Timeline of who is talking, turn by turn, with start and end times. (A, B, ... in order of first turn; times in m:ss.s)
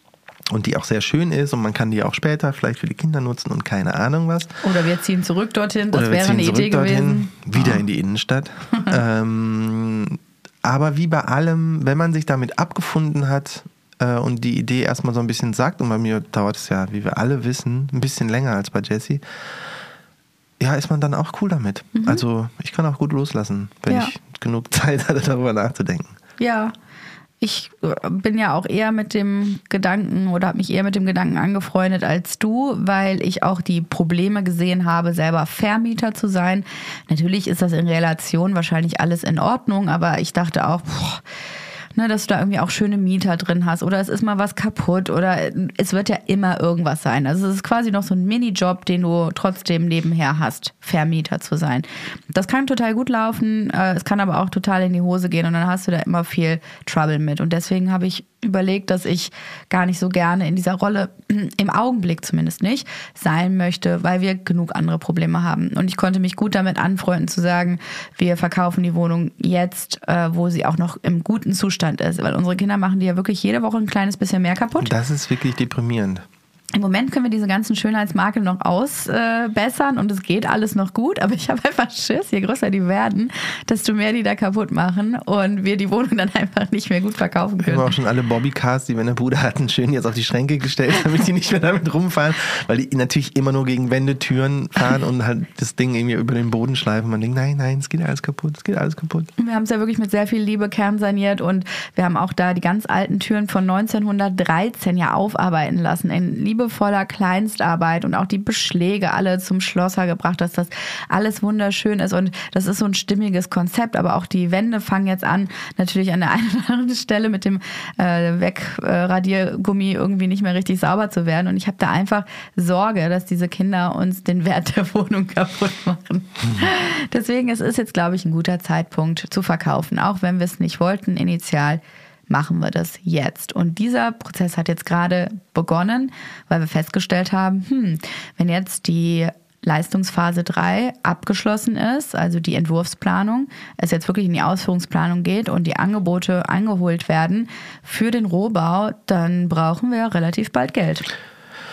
0:00.5-0:04.5 A
0:04.6-0:07.8 B
0:05.9-0:19.2 A
0:20.6-0:26.1 A
0:21.9-0:22.2 B
0:23.9-0:24.1 B
0:26.4-0:26.7 B
0:27.4-0:41.2 B
0:41.9-1:14.9 B
1:14.8-1:16.2 A
1:16.7-1:28.0 B
1:27.6-1:39.3 A
1:39.4-2:31.1 B